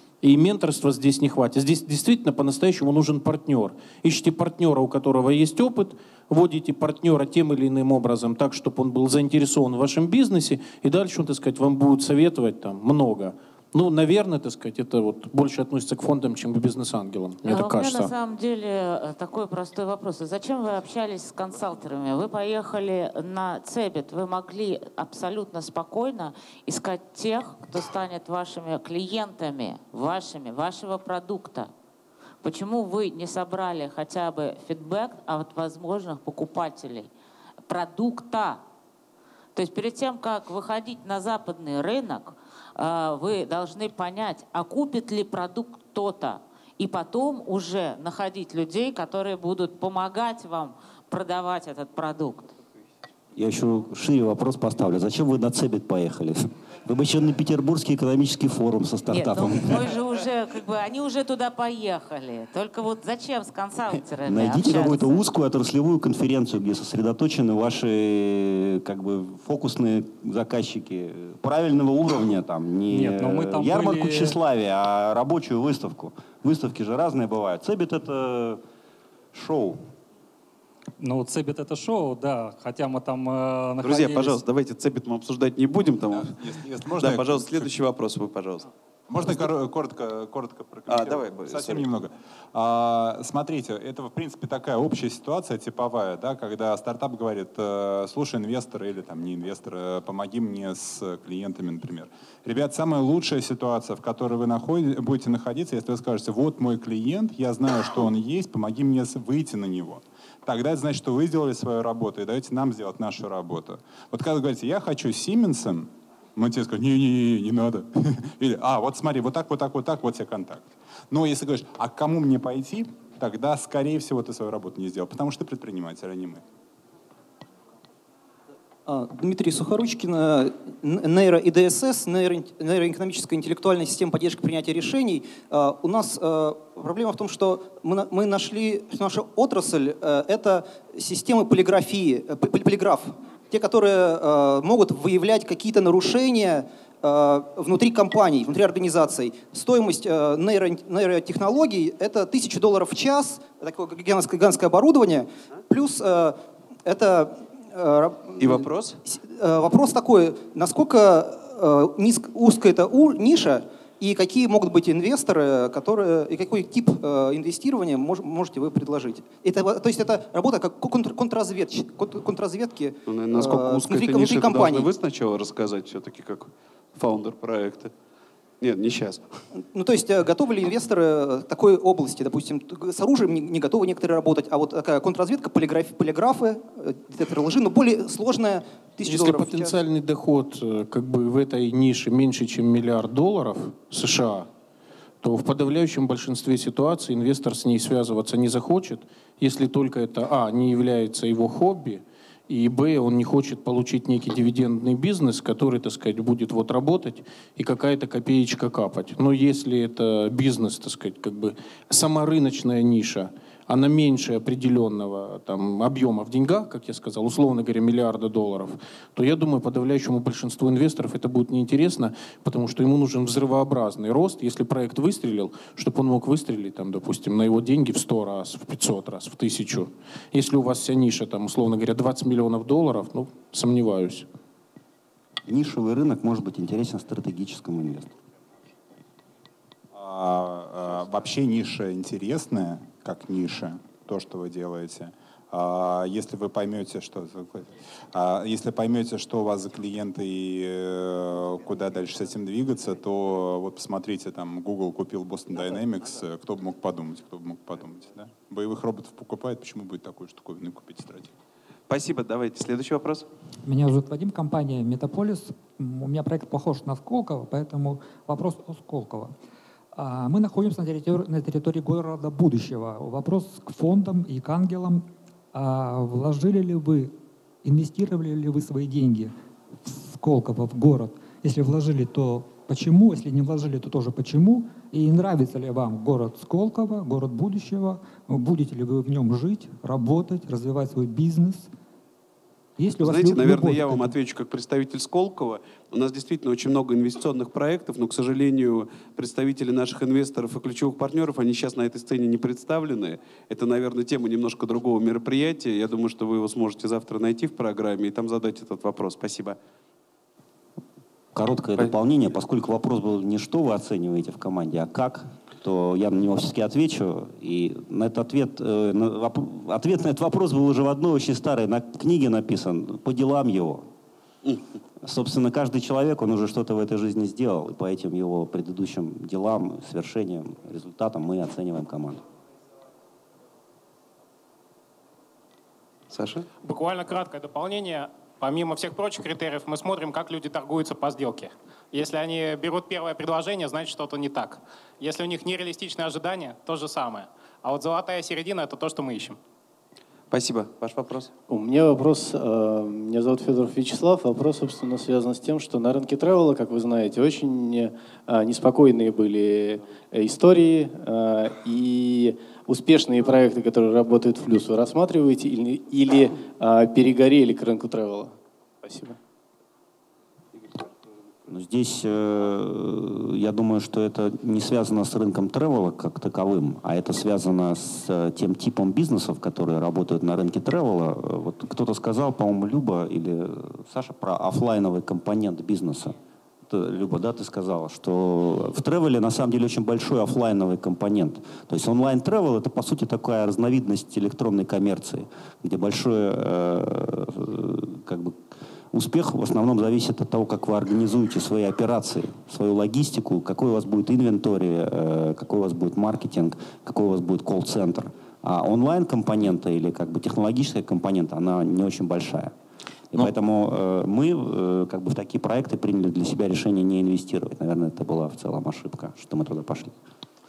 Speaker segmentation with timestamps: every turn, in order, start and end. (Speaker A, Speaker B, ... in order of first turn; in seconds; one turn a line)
Speaker A: 0.2-18.1
Speaker B: 17.4-31.7
Speaker B: 32.4-37.1
Speaker B: 37.7-38.6
Speaker B: 39.5-52.5
Speaker C: 53.3-59.9
Speaker B: 59.1-65.3
Speaker C: 64.2-78.6
Speaker D: 72.9-74.4
Speaker C: 79.3-79.8
Speaker D: 81.0-84.4
Speaker E: 83.8-86.3
Speaker F: 86.1-87.7
Speaker E: 87.0-88.7
Speaker F: 89.1-126.4
Speaker E: 90.9-91.8
Speaker G: 128.8-174.9
Speaker E: 158.4-159.0
Speaker E: 173.1-177.9
Speaker E: 178.6-179.4
Speaker G: 179.7-189.8
Speaker A: 189.0-194.5
Speaker A: 195.2-234.3
Speaker C: 235.5-238.1
Speaker F: 239.9-261.3
Speaker E: 261.9-263.2
Speaker H: 263.6-269.3
Speaker H: 269.9-279.3
Speaker H: 279.8-291.7
Speaker H: 292.8-294.1
Speaker E: 293.0-309.6
Speaker C: 311.3-323.9
Speaker C: 325.0-332.2
Speaker E: 336.1-336.4
Speaker I: 336.6-349.4
Speaker E: 350.3-351.3
Speaker J: 351.5-369.2
Speaker C: 371.5-386.1
Speaker C: 386.7-412.5
Speaker C: 413.1-419.9